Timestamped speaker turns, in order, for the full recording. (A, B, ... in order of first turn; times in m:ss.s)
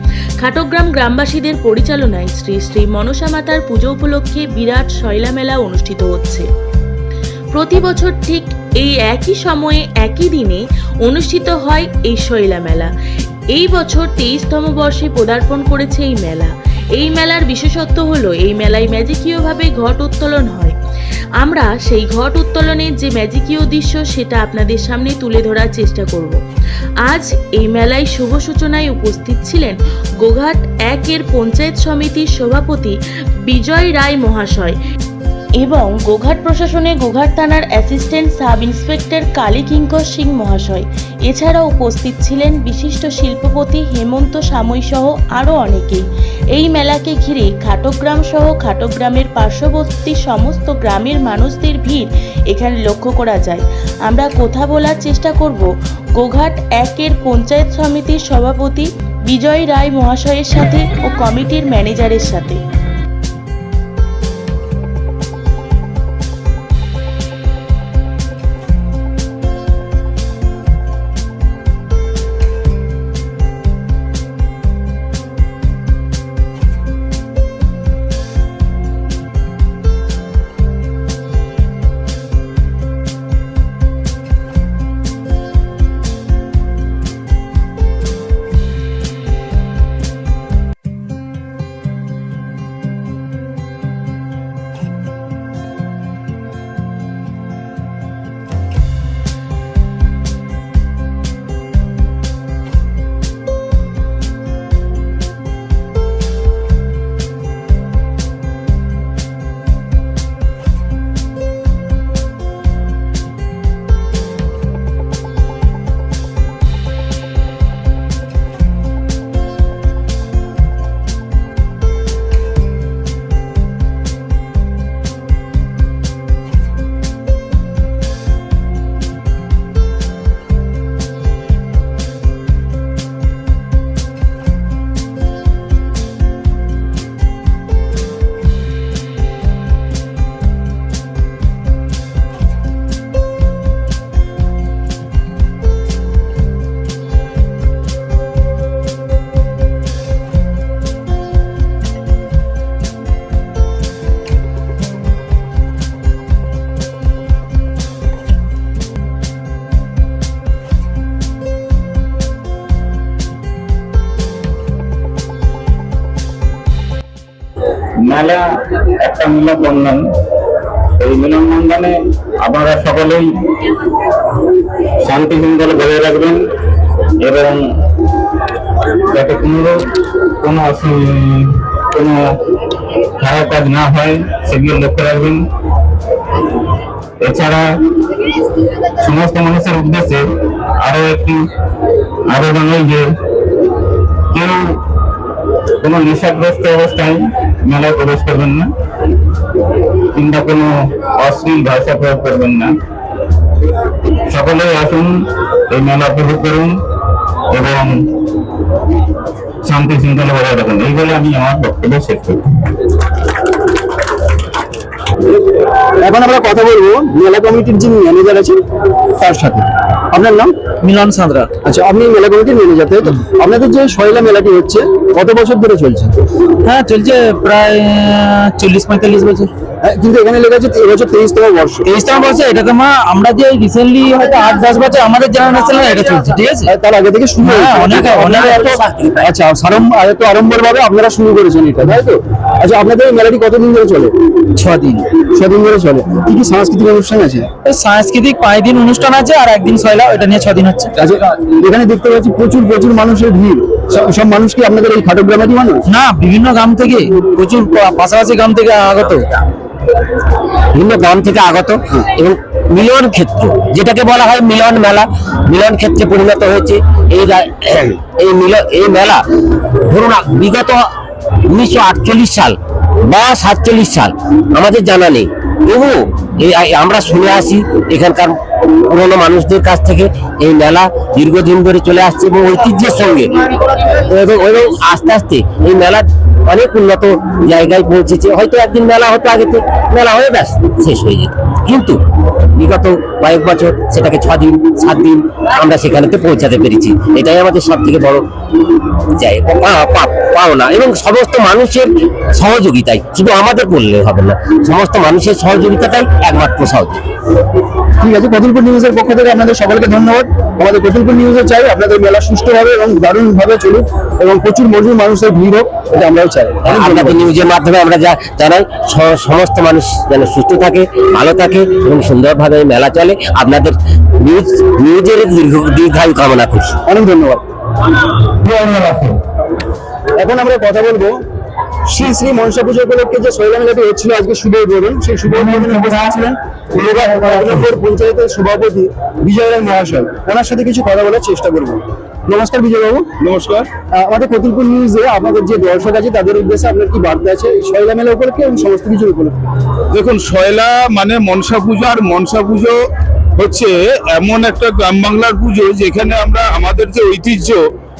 0:00.4-0:06.5 A
0:07.5-0:12.9 A
0:13.5-0:20.8 A
0:21.4-0:26.4 A
0:27.0-0:34.8 A
0:35.6-1:02.6 A
2:48.0-2:48.4 B
2:49.0-2:50.0 B
2:51.0-2:53.2 B
2:55.0-2:56.4 B
2:57.2-2:57.6 B
2:59.1-2:59.8 B
3:00.4-3:02.3 B
3:03.2-3:05.4 B
3:07.2-3:07.6 B
3:09.0-3:10.2 B
3:10.8-3:11.4 B
3:12.3-3:13.0 B
3:14.3-3:14.8 B
3:15.8-3:18.7 B
3:20.1-3:22.7 B
3:24.3-3:25.1 B
3:25.7-3:26.7 B
3:27.5-3:28.0 B
3:29.6-3:32.4 B
3:36.0-3:38.6 C
3:39.2-3:40.6 C
3:40.8-3:41.5 D
3:41.6-3:46.1 C
3:46.6-3:49.5 D
3:49.8-3:51.9 C
3:51.8-3:56.7 D
3:56.6-4:04.1 C
3:57.4-3:58.7 D
3:57.7-3:59.3 E
4:04.5-4:05.1 D
4:05.2-4:07.5 C
4:07.6-4:10.9 D
4:11.0-4:15.8 C
4:15.9-4:19.3 D
4:20.7-4:30.9 E
4:31.4-4:58.2 E
4:59.1-5:07.0 E
5:08.0-5:17.2 C
5:16.6-5:26.8 E
5:26.8-5:27.4 C
5:28.3-5:29.2 B
5:30.2-5:31.2 C
5:31.9-5:43.1 C
5:43.2-5:43.7 F
5:43.9-5:49.4 C
5:49.9-5:52.8 F
5:53.4-5:57.6 F